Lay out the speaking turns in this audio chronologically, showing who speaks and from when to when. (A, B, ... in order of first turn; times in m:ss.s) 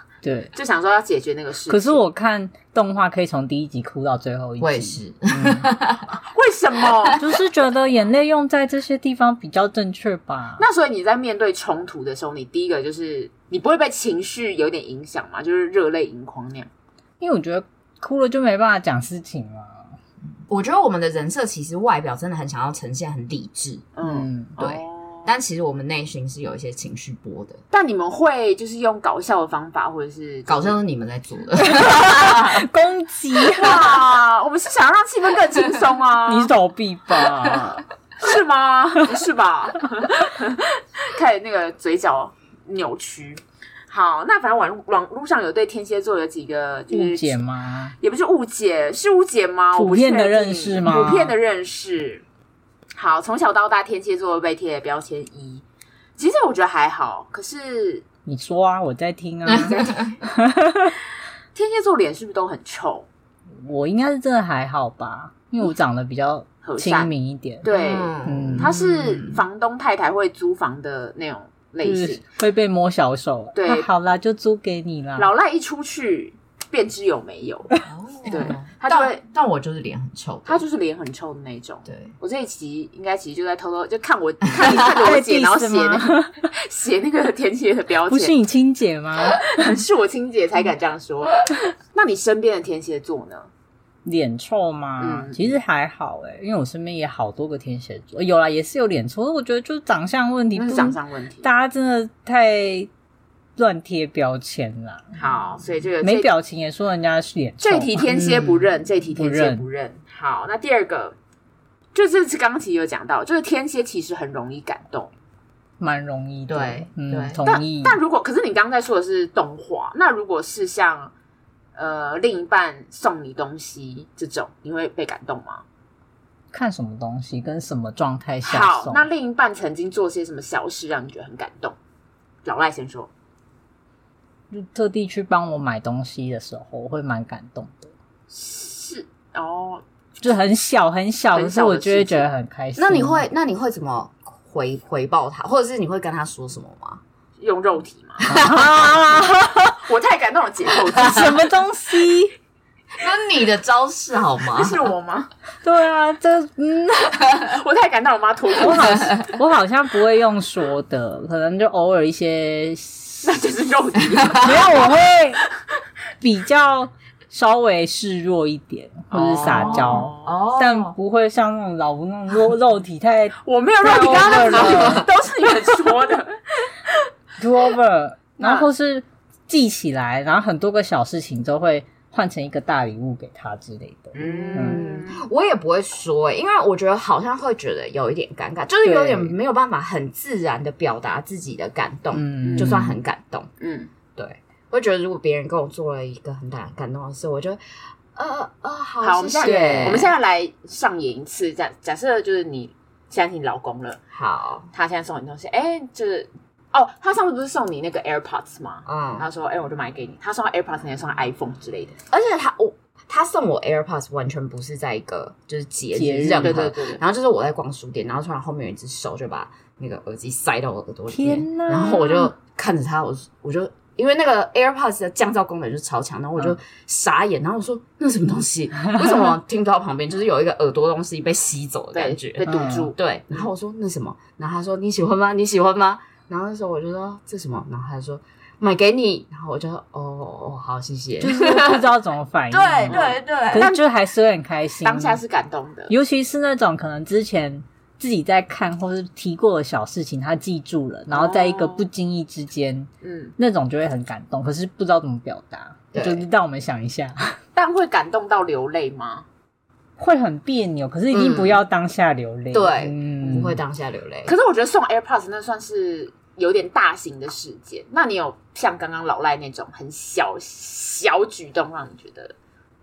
0:00.2-0:00.5 A
0:00.6-0:02.0 B
0:01.7-0:05.7 A
0:04.6-0:06.1 C
0:06.1-0:07.2 B
0:07.2-0:10.6 A
0:10.6-0:16.7 B
0:17.2-0:19.9 A
0:20.5-0:23.9 C
0:24.0-0:25.3 B
0:24.0-0:24.6 A
0:24.6-0:27.6 C
0:27.7-0:30.8 B
0:30.5-0:32.7 C
0:31.6-0:33.9 A
0:33.6-0:36.5 B
0:36.2-0:37.8 A
0:38.2-0:47.4 B
0:46.9-0:47.9 A
0:48.0-0:52.2 B
0:49.8-0:51.4 A
0:53.0-0:55.6 B
0:56.2-0:58.0 B
0:58.2-1:01.0 A
0:59.5-1:00.1 C
1:01.6-1:03.1 B
1:03.6-1:07.7 A
1:06.6-1:07.1 B
1:07.6-1:12.2 B
1:07.6-1:09.4 C
1:08.2-1:08.7 A
1:11.8-1:15.3 A
1:13.6-1:13.9 B
1:15.2-1:19.2 B
1:17.9-1:20.6 C
1:20.4-1:28.3 B
1:21.9-1:22.1 C
1:24.6-1:26.4 A
1:28.1-1:29.8 A
1:29.2-1:33.5 B
1:34.0-1:42.9 A
1:35.0-1:35.5 B
1:40.6-1:41.5 B
1:43.6-1:45.1 A
1:45.1-1:46.3 B
1:46.0-1:48.6 A
1:47.6-1:51.2 B
1:49.1-1:49.6 A
1:51.9-1:55.1 B
1:55.8-1:58.0 A
1:56.5-1:57.4 C
1:57.4-2:01.1 B
2:01.8-2:05.6 B
2:06.5-2:09.1 A
2:08.4-2:11.8 B
2:12.4-2:13.1 B
2:14.5-2:17.8 A
2:18.3-2:19.8 B
2:20.2-2:23.2 A
2:21.3-2:22.3 B
2:22.8-2:27.0 C
2:27.4-2:28.3 B
2:28.2-2:29.8 A
2:28.3-2:28.9 C
2:29.8-2:31.4 B
2:30.9-2:32.3 A
2:33.0-2:34.8 C
2:34.5-2:35.3 B
2:35.6-2:37.3 A
2:37.4-2:39.0 B
2:38.6-2:43.4 A
2:43.2-2:44.9 B
2:44.2-2:44.5 C
2:44.4-2:45.4 A
2:46.2-2:55.1 A
2:49.1-2:50.4 B
2:49.4-2:50.9 C
2:53.4-2:57.0 B
2:54.1-2:55.1 C
2:57.4-3:04.8 A
2:58.4-2:58.7 B
3:04.1-3:05.3 B
3:04.2-3:13.5 C
3:08.8-3:09.3 A
3:12.1-3:13.0 A
3:12.4-3:12.8 B
3:13.6-3:13.9 B
3:14.2-3:17.6 C
3:18.1-3:20.1 C
3:19.0-3:24.0 B
3:19.4-3:20.0 A
3:24.1-3:24.7 C
3:24.7-3:32.0 B
3:28.9-3:29.3 C
3:32.1-4:01.8 C
3:35.9-3:36.7 A
3:36.4-3:37.0 B
3:41.1-3:42.3 A
3:51.9-3:53.0 B
3:52.4-3:52.9 A
4:01.2-4:05.2 A
4:02.5-4:03.7 C
4:02.9-4:03.8 B
4:04.8-4:05.9 B
4:05.9-4:17.4 A
4:11.1-4:11.9 B
4:13.0-4:13.3 B
4:15.9-4:16.2 C
4:17.6-4:19.2 B
4:20.0-4:23.6 A
4:21.1-4:21.6 C
4:22.5-4:24.3 C
4:24.2-4:32.3 B